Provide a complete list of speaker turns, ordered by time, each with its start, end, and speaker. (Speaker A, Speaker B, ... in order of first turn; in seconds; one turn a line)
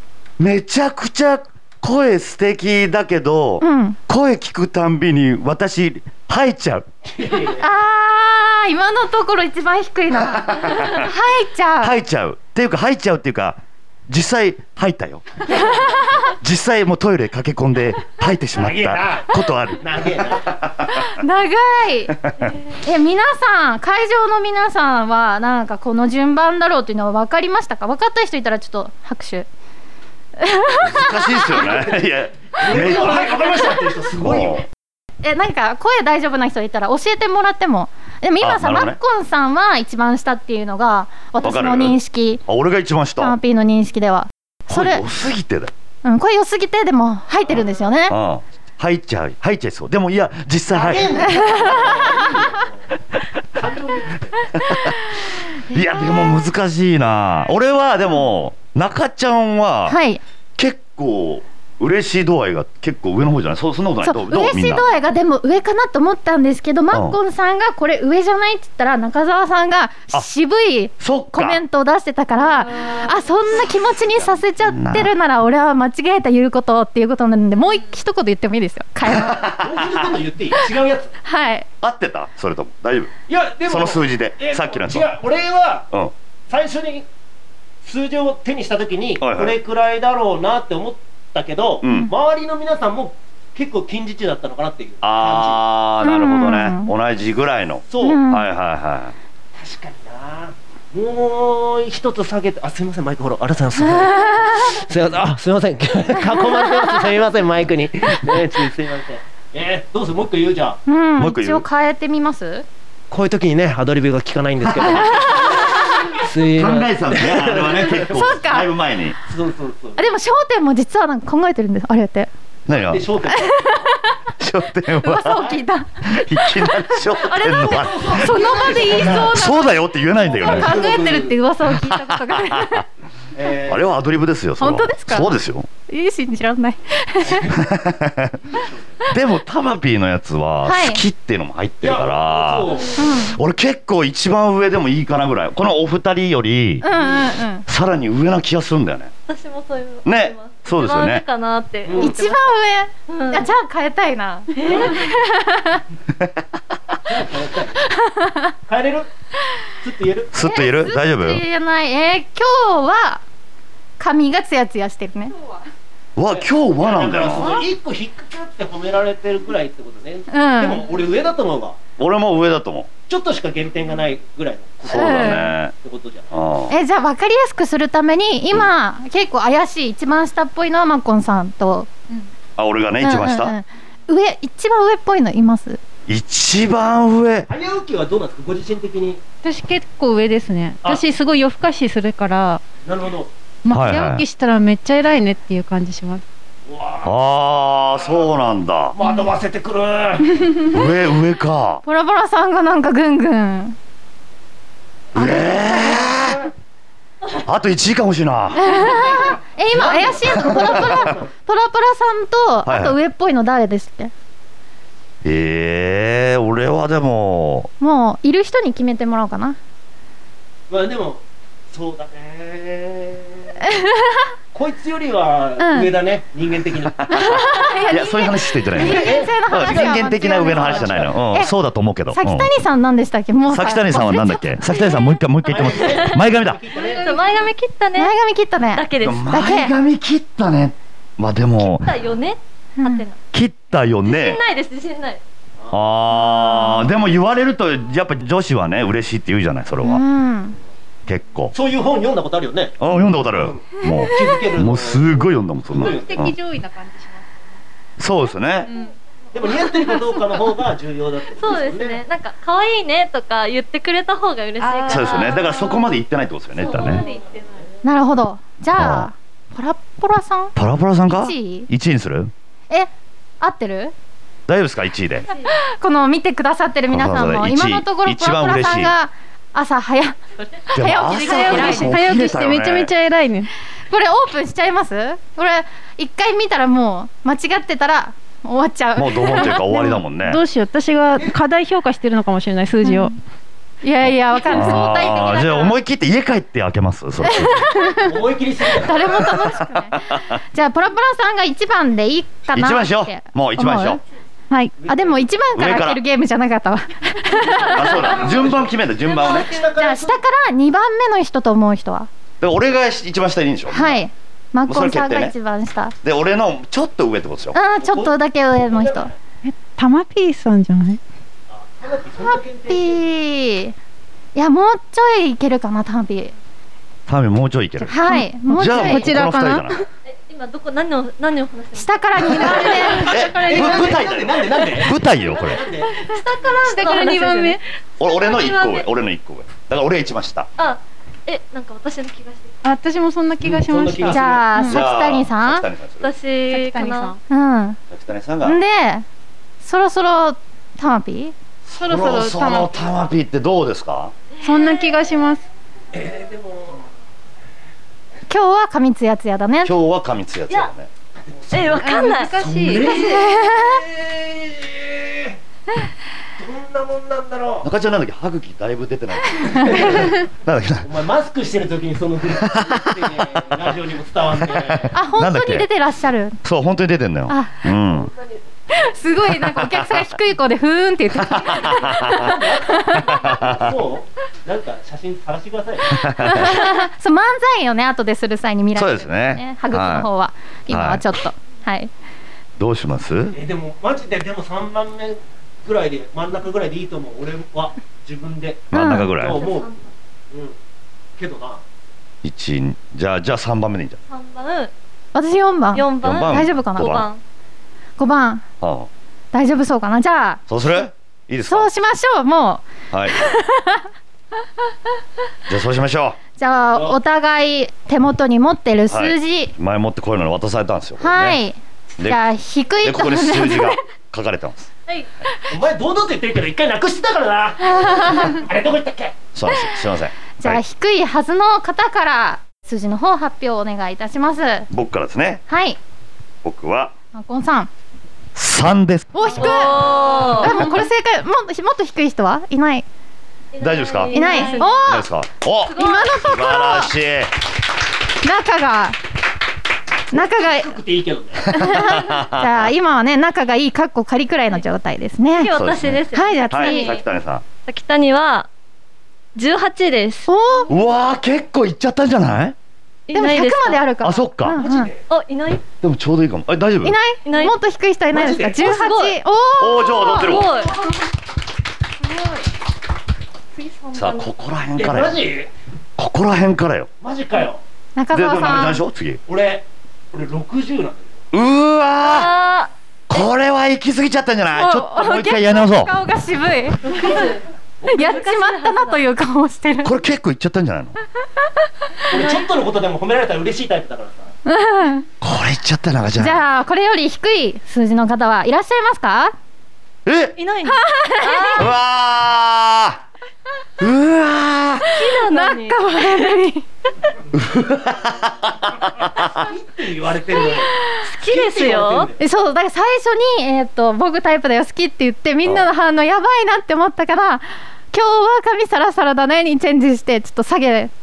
Speaker A: 0.4-6.9
Speaker B: 3.6-4.0
Speaker C: 7.1-7.7
Speaker B: 7.6-11.9
Speaker A: 10.4-11.1
Speaker A: 11.8-20.9
Speaker C: 18.5-20.5
Speaker B: 20.9-22.2
Speaker B: 22.8-29.5
Speaker B: 30.4-31.8
Speaker A: 30.8-33.4
Speaker C: 32.5-34.6
Speaker A: 34.2-34.6
Speaker B: 35.2-42.4
Speaker A: 38.4-39.0
Speaker A: 41.4-43.4
Speaker B: 43.2-45.0
Speaker A: 44.7-45.7
Speaker B: 46.0-48.2
Speaker A: 48.1-52.2
Speaker C: 50.7-52.9
Speaker B: 51.4-51.7
Speaker C: 53.5-54.5
Speaker A: 54.6-55.0
Speaker B: 55.7-56.5
Speaker A: 55.7-60.0
Speaker B: 59.9-60.2
Speaker A: 60.6-64.8
Speaker B: 64.0-79.5
Speaker A: 66.9-67.2
Speaker A: 71.0-71.6
Speaker A: 74.7-75.1
Speaker A: 79.1-80.2
Speaker C: 79.6-81.1
Speaker B: 81.2-81.7
Speaker A: 81.8-83.1
Speaker C: 83.3-85.9
Speaker A: 83.7-85.1
Speaker C: 86.5-87.1
Speaker C: 87.8-95.6
Speaker A: 89.2-89.6
Speaker A: 91.8-92.1
Speaker A: 95.0-99.2
Speaker B: 96.0-96.9
Speaker C: 97.9-98.2
Speaker B: 98.0-98.4
Speaker C: 99.6-110.8
Speaker B: 110.9-112.7
Speaker A: 111.2-111.7
Speaker C: 113.1-118.3
Speaker A: 116.6-119.2
Speaker B: 118.1-118.7
Speaker C: 119.2-120.0
Speaker B: 120.0-122.3
Speaker A: 122.7-123.1
Speaker C: 122.7-123.9
Speaker B: 123.3-123.9
Speaker A: 124.4-125.5
Speaker B: 125.0-126.8
Speaker A: 126.1-128.4
Speaker B: 127.3-132.8
Speaker C: 127.3-129.4
Speaker A: 128.9-130.8
Speaker C: 130.2-131.4
Speaker A: 131.7-132.8
Speaker C: 133.3-134.0
Speaker A: 133.7-135.7
Speaker B: 134.6-135.4
Speaker B: 135.9-137.6
Speaker C: 137.2-137.6
Speaker A: 137.5-138.4
Speaker C: 138.5-139.1
Speaker A: 139.1-146.9
Speaker B: 140.6-141.0
Speaker C: 141.8-143.1
Speaker B: 142.9-143.4
Speaker B: 146.8-147.7
Speaker A: 147.7-149.1
Speaker D: 149.3-152.5
Speaker A: 150.1-151.2
Speaker C: 151.8-152.2
Speaker B: 152.0-155.8
Speaker D: 153.1-153.5
Speaker D: 154.6-155.1
Speaker C: 157.1-157.9
Speaker B: 157.9-158.5
Speaker C: 158.7-159.1
Speaker C: 159.8-160.3
Speaker A: 160.3-161.4
Speaker B: 160.4-163.2
Speaker B: 164.0-165.3
Speaker A: 166.2-167.6
Speaker C: 166.3-171.8
Speaker B: 170.3-170.8
Speaker A: 172.0-172.9
Speaker C: 173.1-176.3
Speaker A: 174.9-175.7
Speaker B: 174.9-175.6
Speaker A: 176.3-176.8
Speaker B: 176.7-181.9
Speaker A: 182.6-183.6
Speaker B: 183.0-185.8
Speaker A: 186.1-187.5
Speaker C: 187.5-189.2
Speaker E: 189.4-192.6
Speaker C: 192.8-193.3
Speaker E: 193.7-196.2
Speaker A: 193.7-194.2
Speaker C: 196.7-198.3
Speaker A: 197.0-199.0
Speaker C: 198.9-200.5
Speaker A: 200.6-201.8
Speaker B: 201.8-203.8
Speaker A: 205.2-206.5
Speaker B: 205.2-206.1
Speaker A: 207.4-208.9
Speaker B: 208.6-214.1
Speaker C: 208.8-211.3
Speaker A: 210.3-211.0
Speaker A: 212.7-213.0
Speaker A: 215.2-217.7
Speaker B: 217.8-219.6
Speaker C: 220.7-223.6
Speaker B: 223.7-224.2
Speaker C: 224.5-227.1
Speaker B: 225.6-225.9
Speaker A: 227.0-232.5
Speaker B: 227.1-231.5
Speaker C: 228.7-231.2
Speaker B: 232.1-235.2
Speaker A: 233.5-236.6
Speaker C: 235.4-237.2
Speaker D: 235.5-236.2
Speaker D: 236.7-238.1
Speaker B: 238.0-239.7
Speaker D: 238.7-239.3
Speaker A: 239.0-241.9
Speaker D: 241.6-243.2
Speaker B: 242.8-243.1
Speaker A: 243.3-244.4
Speaker D: 244.1-245.2
Speaker A: 245.7-250.0
Speaker B: 246.1-246.9
Speaker B: 249.8-250.6
Speaker A: 251.1-251.5
Speaker C: 251.5-256.3
Speaker A: 252.8-256.4
Speaker E: 255.8-257.6
Speaker A: 258.0-258.7
Speaker E: 258.7-258.9
Speaker C: 259.3-262.0
Speaker D: 261.4-265.8
Speaker E: 264.6-265.8
Speaker A: 264.9-267.1
Speaker D: 266.6-267.4
Speaker C: 266.9-267.2
Speaker B: 267.8-270.6
Speaker A: 268.8-269.1
Speaker A: 270.6-272.3
Speaker B: 271.1-271.7
Speaker B: 273.4-273.9
Speaker A: 274.5-275.3
Speaker D: 275.3-275.5
Speaker B: 275.5-280.2
Speaker A: 276.9-278.9
Speaker B: 280.7-282.1
Speaker A: 280.8-282.9
Speaker E: 281.2-283.5
Speaker B: 283.9-290.0
Speaker A: 289.0-290.4
Speaker E: 289.7-293.2
Speaker B: 292.8-293.1
Speaker B: 293.8-295.8
Speaker A: 294.5-298.0
Speaker B: 297.2-298.0
Speaker C: 298.0-299.3
Speaker B: 298.8-304.0
Speaker A: 299.2-300.4
Speaker A: 302.5-304.0
Speaker E: 304.5-304.8
Speaker C: 304.8-305.3
Speaker B: 304.9-308.2
Speaker A: 305.6-306.0
Speaker A: 307.6-309.5
Speaker C: 308.0-310.2
Speaker B: 309.6-312.1
Speaker A: 312.4-314.0
Speaker B: 313.7-315.9
Speaker A: 314.7-315.3
Speaker A: 316.0-317.6
Speaker B: 317.5-319.1
Speaker C: 317.7-319.2
Speaker E: 319.4-321.0
Speaker C: 321.5-323.0
Speaker B: 322.2-323.8
Speaker B: 324.4-326.3
Speaker A: 327.1-328.0
Speaker B: 327.9-329.2
Speaker E: 328.0-329.9
Speaker A: 328.5-329.7
Speaker D: 330.1-333.1
Speaker B: 331.8-333.1
Speaker E: 332.2-333.9
Speaker A: 333.1-335.6
Speaker C: 333.3-336.0
Speaker D: 335.9-338.9
Speaker E: 336.6-337.6
Speaker A: 338.0-340.5
Speaker D: 340.6-342.6
Speaker E: 342.6-344.8
Speaker C: 343.4-344.6
Speaker B: 344.1-345.7
Speaker A: 344.6-346.1
Speaker D: 346.0-347.2
Speaker E: 346.5-347.2
Speaker B: 347.3-347.8
Speaker A: 347.9-348.6
Speaker B: 348.4-349.1
Speaker B: 349.6-351.3
Speaker A: 351.7-354.1
Speaker E: 351.8-352.7
Speaker D: 354.4-354.9
Speaker E: 354.4-355.5
Speaker C: 355.9-356.9
Speaker B: 358.3-359.7
Speaker A: 359.6-360.9
Speaker C: 361.3-365.4
Speaker D: 361.5-362.4
Speaker E: 361.8-363.0
Speaker B: 362.9-363.8
Speaker C: 366.4-367.7
Speaker A: 367.6-370.9
Speaker C: 369.6-370.2
Speaker C: 370.8-374.9
Speaker A: 372.4-373.2
Speaker A: 374.5-375.7
Speaker B: 374.9-376.4
Speaker A: 376.4-378.1
Speaker B: 377.3-377.7
Speaker C: 377.8-378.8
Speaker B: 378.7-383.3
Speaker A: 379.5-379.8
Speaker A: 381.2-382.3
Speaker C: 382.2-386.0
Speaker A: 383.1-383.8
Speaker A: 385.9-386.6
Speaker B: 386.0-391.9
Speaker A: 388.8-390.1
Speaker A: 390.7-391.0
Speaker A: 392.6-393.4
Speaker C: 393.3-399.7
Speaker A: 398.7-399.4
Speaker B: 398.7-399.1
Speaker D: 399.3-399.9
Speaker C: 400.3-400.6
Speaker C: 401.2-401.6
Speaker A: 402.2-404.0
Speaker D: 404.1-404.7
Speaker B: 405.1-407.0
Speaker D: 405.8-407.2
Speaker A: 406.0-407.1
Speaker B: 408.0-408.5
Speaker A: 408.6-408.9
Speaker B: 409.3-410.4
Speaker A: 410.5-411.7
Speaker B: 411.5-413.8
Speaker A: 412.9-413.3
Speaker A: 415.5-416.2
Speaker B: 416.4-419.5
Speaker A: 418.9-421.4
Speaker B: 421.0-423.8
Speaker A: 422.8-424.7
Speaker C: 425.5-429.2
Speaker B: 427.8-428.3
Speaker A: 429.3-430.6
Speaker B: 430.4-434.7
Speaker A: 434.7-435.4
Speaker B: 435.5-435.8
Speaker A: 436.4-436.9
Speaker B: 437.1-437.7
Speaker A: 438.4-439.5
Speaker B: 439.1-442.9
Speaker D: 439.4-440.7
Speaker D: 443.5-444.9
Speaker A: 443.6-444.3
Speaker B: 444.1-445.1
Speaker E: 444.2-444.6
Speaker A: 444.9-447.3
Speaker D: 445.6-446.1
Speaker B: 445.8-446.9
Speaker B: 448.2-449.0
Speaker B: 450.1-450.8
Speaker C: 450.1-451.5
Speaker A: 451.5-452.7
Speaker B: 451.5-455.5
Speaker D: 455.4-457.1
Speaker A: 455.5-457.4
Speaker B: 456.1-457.0
Speaker D: 457.7-458.5
Speaker D: 459.4-460.3
Speaker B: 460.3-460.7
Speaker A: 460.7-462.6
Speaker D: 463.1-463.9
Speaker B: 463.1-464.9
Speaker A: 464.0-464.6
Speaker C: 464.5-465.0
Speaker D: 465.1-465.6
Speaker A: 465.8-467.0
Speaker B: 466.8-470.4
Speaker D: 467.2-467.6
Speaker C: 468.1-468.6
Speaker D: 468.6-469.2
Speaker A: 469.6-470.5
Speaker D: 469.9-470.8
Speaker B: 472.0-472.5
Speaker D: 473.6-474.3
Speaker A: 473.9-475.3
Speaker C: 474.8-475.5
Speaker A: 476.0-476.9
Speaker C: 477.0-477.6
Speaker B: 478.0-478.8
Speaker A: 478.1-479.2
Speaker C: 479.3-481.2
Speaker A: 481.3-482.3
Speaker D: 482.0-483.3
Speaker A: 483.1-485.9
Speaker B: 484.5-487.3
Speaker D: 486.9-489.0
Speaker B: 487.9-490.0
Speaker A: 489.8-490.9
Speaker C: 492.1-494.3
Speaker B: 494.5-495.1
Speaker A: 495.2-496.4
Speaker B: 496.2-499.3
Speaker A: 500.1-500.4
Speaker D: 500.4-501.7
Speaker B: 500.7-501.7
Speaker A: 501.6-503.0
Speaker A: 503.8-504.9
Speaker D: 504.9-506.4
Speaker B: 504.9-506.7
Speaker A: 507.3-509.4
Speaker C: 509.4-512.2
Speaker D: 511.0-512.1
Speaker B: 512.2-520.9